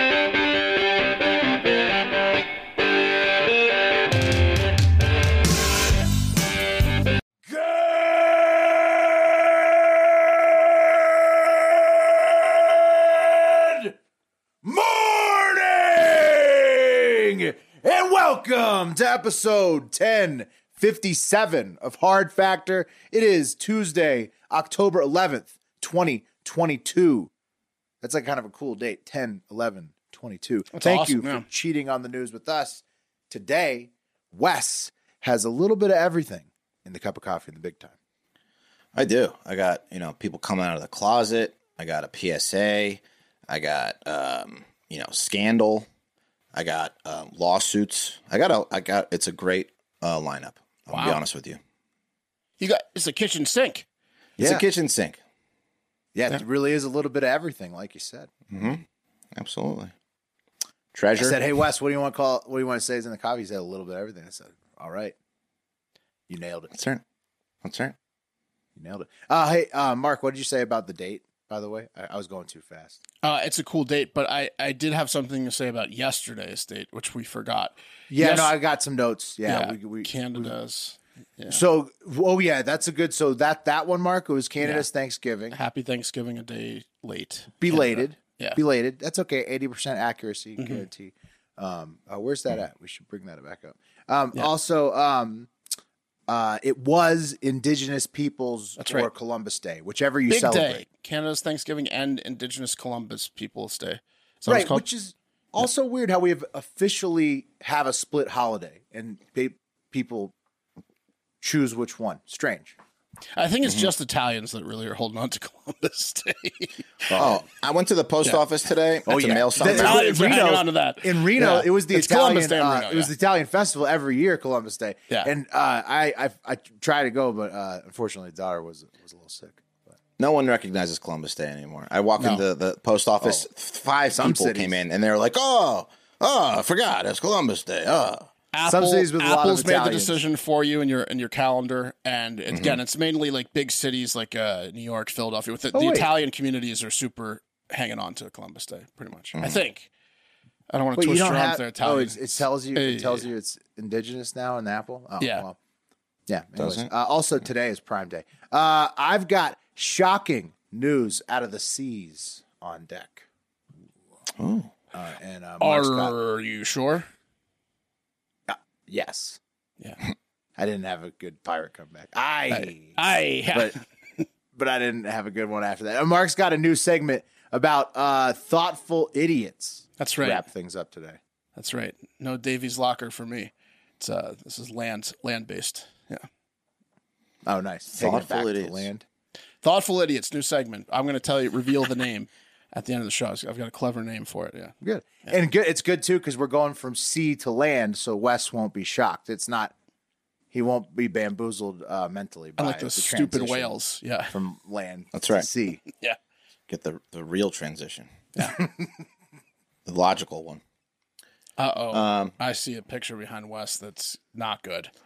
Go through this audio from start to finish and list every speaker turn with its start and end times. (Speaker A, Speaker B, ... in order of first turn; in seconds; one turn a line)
Speaker A: 7.5-13.9
Speaker A: 14.6-27.3
Speaker A: 28.0-37.9
Speaker B: 30.7-31.4
Speaker C: 38.9-45.9
Speaker C: 46.5-51.6
Speaker B: 50.9-51.2
Speaker B: 52.6-53.9
Speaker C: 54.4-55.2
Speaker A: 54.4-54.6
Speaker A: 56.1-58.3
Speaker C: 58.5-58.8
Speaker C: 59.3-59.9
Speaker C: 60.9-61.4
Speaker A: 61.2-65.1
Speaker A: 66.3-66.7
Speaker C: 66.7-67.0
Speaker C: 67.6-67.9
Speaker A: 68.8-73.0
Speaker B: 73.2-78.6
Speaker A: 78.1-80.5
Speaker B: 79.4-81.6
Speaker A: 81.5-85.5
Speaker B: 84.6-84.9
Speaker B: 85.5-88.6
Speaker A: 87.6-95.5
Speaker A: 96.3-100.8
Speaker B: 98.8-99.1
Speaker B: 100.3-104.8
Speaker A: 104.5-110.3
Speaker A: 111.4-112.7
Speaker B: 113.3-116.8
Speaker A: 117.1-117.4
Speaker C: 117.1-120.1
Speaker A: 119.0-129.9
Speaker B: 119.6-123.1
Speaker C: 130.2-138.3
Speaker A: 134.2-134.8
Speaker B: 138.5-149.9
Speaker A: 138.6-140.2
Speaker C: 142.5-142.8
Speaker A: 145.7-146.1
Speaker C: 149.3-149.6
Speaker B: 150.7-153.3
Speaker A: 150.9-155.6
Speaker A: 156.3-163.2
Speaker C: 156.6-156.9
Speaker C: 164.4-164.7
Speaker A: 164.9-166.1
Speaker B: 165.6-167.1
Speaker A: 168.5-169.4
Speaker A: 170.6-173.0
Speaker B: 172.5-173.8
Speaker A: 173.5-173.8
Speaker A: 174.5-181.2
Speaker B: 180.0-180.4
Speaker B: 181.6-186.2
Speaker A: 187.4-189.0
Speaker C: 187.9-188.9
Speaker B: 189.6-194.7
Speaker A: 194.8-199.7
Speaker A: 200.5-203.7
Speaker B: 202.6-204.3
Speaker A: 204.3-205.8
Speaker C: 205.1-205.4
Speaker C: 206.7-208.1
Speaker C: 209.8-210.6
Speaker B: 211.6-214.9
Speaker C: 211.9-212.3